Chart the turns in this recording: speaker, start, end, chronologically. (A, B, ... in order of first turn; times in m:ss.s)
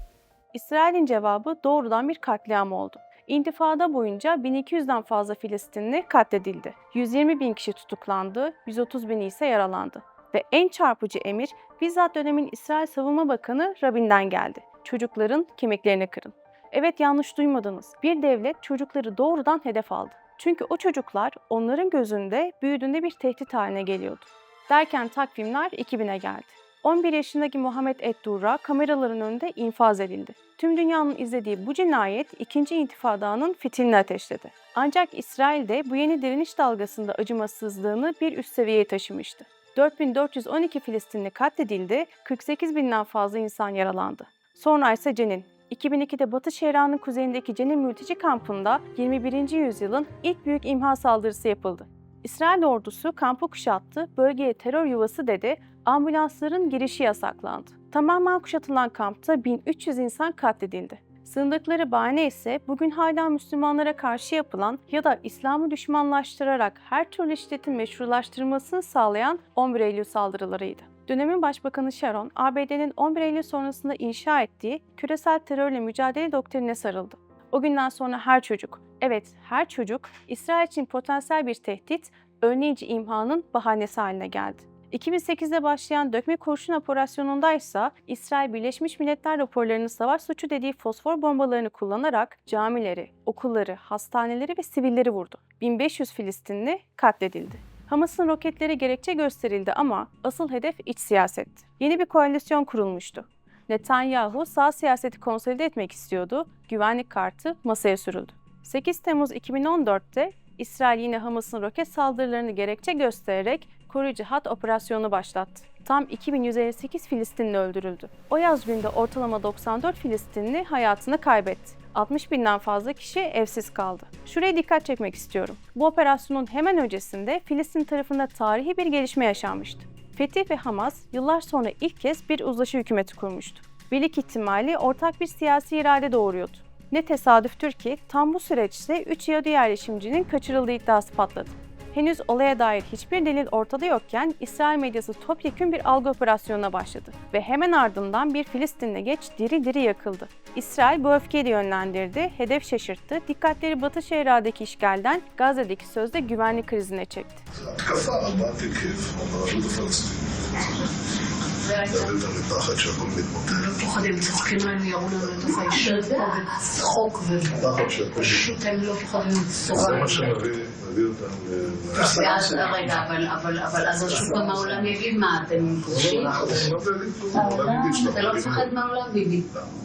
0:00.5-2:37.4 A
2:37.6-2:40.9 B
2:41.6-2:42.2 C
2:41.8-2:43.9 B
2:43.5-2:50.4 C
2:45.2-2:45.7 B
2:47.6-2:48.6 B
2:49.7-2:53.1 B
2:51.9-2:56.7 C
2:54.0-2:55.0 B
2:55.7-2:58.7 B
2:57.3-2:59.4 C